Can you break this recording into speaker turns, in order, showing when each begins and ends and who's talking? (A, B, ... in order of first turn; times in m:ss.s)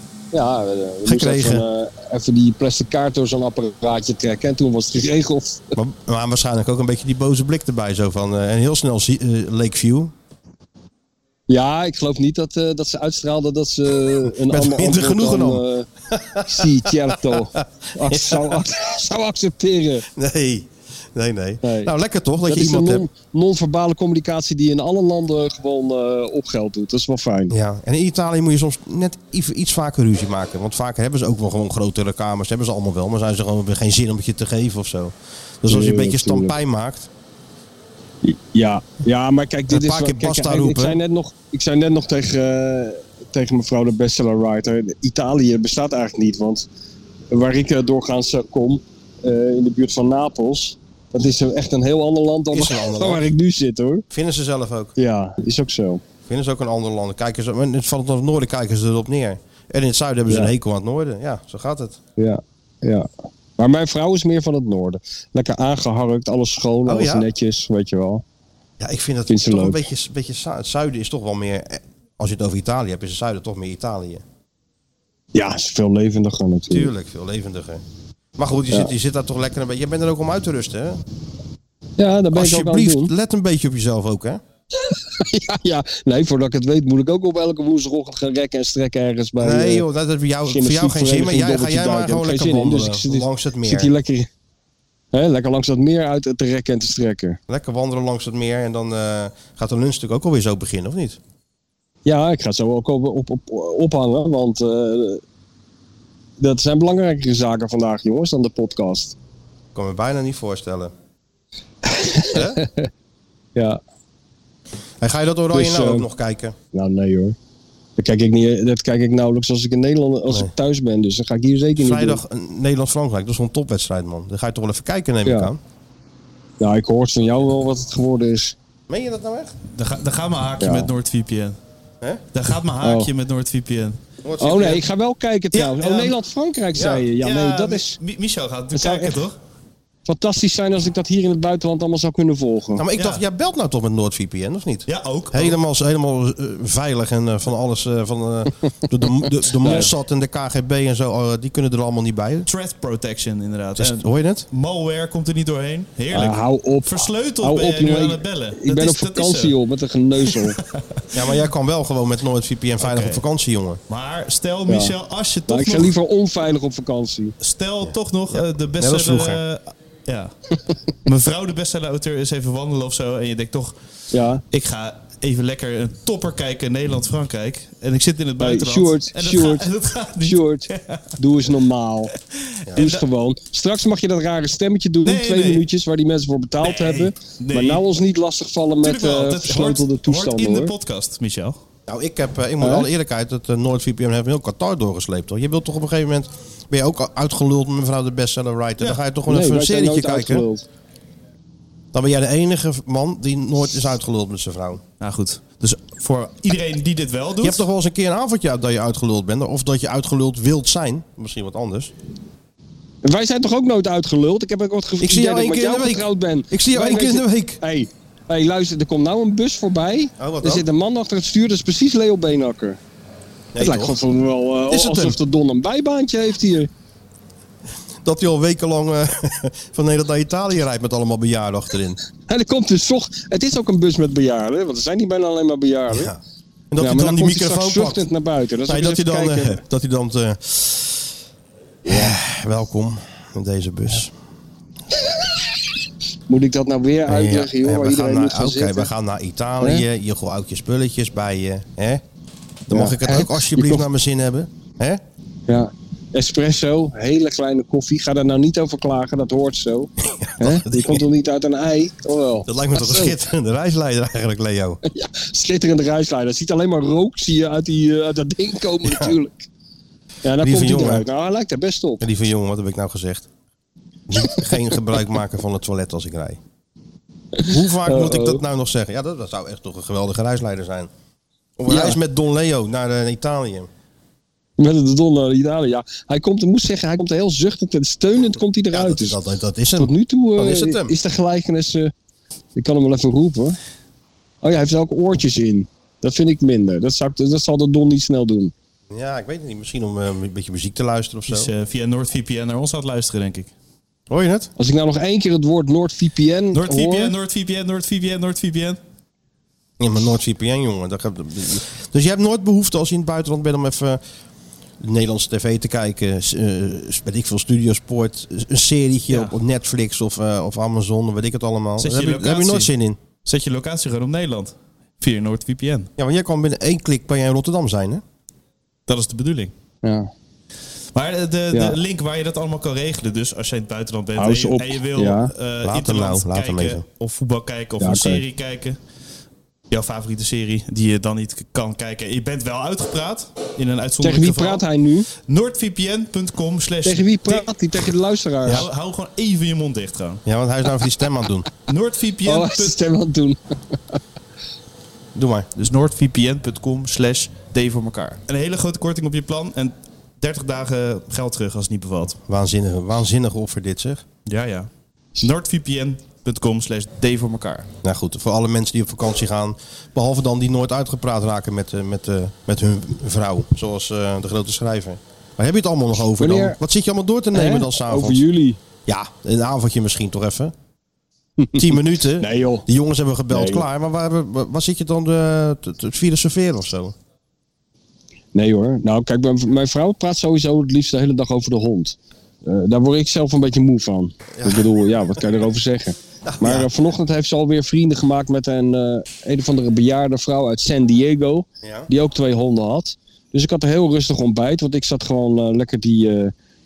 0:00.3-0:05.6 A
0:01.0-0:01.7 B
0:05.8-0:10.1 B
0:11.5-0:15.9 A
0:14.4-0:18.6 B
0:16.5-0:20.1 A
0:20.2-0:23.1 B
0:21.6-0:21.9 A
0:22.5-0:27.5 A
0:27.5-0:37.1 B
0:35.7-0:36.5 A
0:38.2-0:46.7 A
0:39.7-0:41.0 B
0:47.3-0:54.0 A
0:52.5-0:53.3 B
0:54.1-0:55.0 B
0:55.0-0:56.0 A
0:56.3-1:02.0 B
1:00.3-1:00.5 A
1:02.2-1:08.2 A
1:06.9-1:07.3 B
1:08.8-1:14.2 B
1:09.3-1:09.8 A
1:15.3-1:16.9 A
1:16.7-1:17.8 B
1:18.4-1:21.0 B
1:22.0-1:23.1 A
1:22.3-1:24.4 B
1:24.8-1:29.9 A
1:29.4-1:33.9 B
1:30.5-1:34.3 A
1:35.1-1:37.4 A
1:37.5-1:41.2 B
1:42.0-1:45.2 A
1:46.4-1:49.2 A
1:49.8-1:50.9 B
1:51.8-1:52.9 A
1:52.3-1:52.6 B
1:53.6-1:53.8 A
1:55.0-1:56.6 B
1:55.5-1:56.1 A
1:56.7-1:57.4 A
1:58.0-2:02.2 A
2:01.8-2:05.6 B
2:05.2-2:05.5 A
2:06.6-2:08.6 A
2:08.9-2:09.6 B
2:09.7-2:11.6 C
2:10.6-2:10.9 A
2:12.3-2:14.0 C
2:12.8-2:13.1 A
2:14.2-2:14.8 B
2:14.4-2:18.0 A
2:15.5-2:16.2 C
2:16.8-2:17.1 B
2:17.2-2:19.4 C
2:18.7-2:19.2 A
2:20.0-2:22.8 A
2:22.8-2:32.5 B
2:23.0-2:23.2 C
2:24.9-2:25.6 C
2:29.6-2:29.9 A
2:32.5-2:39.6 C
2:33.8-2:34.5 B
2:36.1-2:40.6 A
2:40.3-2:40.8 C
2:41.1-2:43.8 B
2:42.8-2:43.2 C
2:43.9-2:45.9 C
2:44.7-2:45.0 A
2:45.5-2:47.4 A
2:47.4-2:50.3 C
2:47.8-2:49.4 B
2:51.0-2:53.8 C
2:54.1-2:54.4 A
2:54.5-3:01.2 C
2:58.4-3:02.1 A
3:02.5-3:03.0 C
3:02.8-3:10.7 A
3:05.0-3:05.7 C
3:06.6-3:07.8 C
3:08.8-3:11.6 C
3:11.9-3:20.5 B
3:12.6-3:12.9 A
3:19.3-3:20.6 A
3:21.9-3:24.8 B
3:25.0-3:27.6 C
3:27.4-3:31.9 B
3:33.0-3:42.8 A
3:35.0-3:37.6 B
3:40.2-3:40.7 B
3:43.5-3:44.0 B
3:43.6-3:46.7 A
3:44.7-3:45.2 B
3:48.0-3:52.0 B
3:52.3-3:56.1 A
3:55.9-3:56.2 B
3:56.7-3:58.1 B
3:56.8-3:59.6 A
3:58.7-4:01.1 B
4:01.8-4:04.1 B
4:01.9-4:02.2 A
4:06.3-4:08.9 A
4:07.1-4:12.0 B
4:12.7-4:15.0 B
4:12.7-4:13.9 A
4:15.5-4:23.2 A
4:20.0-4:21.0 B
4:22.5-4:24.8 B
4:24.9-4:29.5 A
4:28.8-4:29.2 B
4:30.2-4:32.0 A
4:30.4-4:31.1 B
4:32.0-4:33.3 B
4:34.1-4:36.4 B
4:37.4-4:38.4 A
4:37.4-4:40.9 B
4:41.6-4:43.7 B
4:41.7-4:42.0 A
4:44.6-4:49.2 A
4:48.7-4:51.0 B
4:49.8-4:51.9 A
4:52.6-4:53.6 A
4:54.4-4:58.5 A
4:58.9-5:01.5 B
5:01.3-5:03.5 C
5:04.1-5:04.5 B
5:04.6-5:07.2 A
5:06.5-5:08.8 C
5:09.8-5:14.0 B
5:14.8-5:23.0 B
5:19.1-5:19.4 C
5:21.8-5:22.7 C
5:23.2-5:25.9 C
5:26.0-5:28.0 B
5:28.9-5:29.5 C
5:29.8-5:30.1 A
5:31.0-5:38.8 C
5:31.5-5:31.8 A
5:34.2-5:35.3 A
5:35.6-5:36.8 B
5:37.8-5:38.2 A
5:39.7-5:44.6 C
5:44.0-5:45.1 A
5:45.2-5:47.9 C
5:46.8-5:48.7 A
5:48.5-5:50.2 C
5:50.2-5:51.5 B
5:51.7-5:52.8 C
5:52.2-5:54.0 A
5:55.2-5:55.5 B
5:55.6-6:02.2 C
6:02.3-6:04.0 B
6:04.3-6:07.7 C
6:07.8-6:18.2 B
6:16.2-6:16.6 A
6:17.3-6:18.6 A
6:18.9-6:20.5 B
6:21.4-6:22.6 A
6:21.6-6:27.0 B
6:23.3-6:23.6 A
6:28.3-6:46.3 A
6:34.3-6:34.7 B
6:36.2-6:36.7 B
6:41.6-6:41.9 B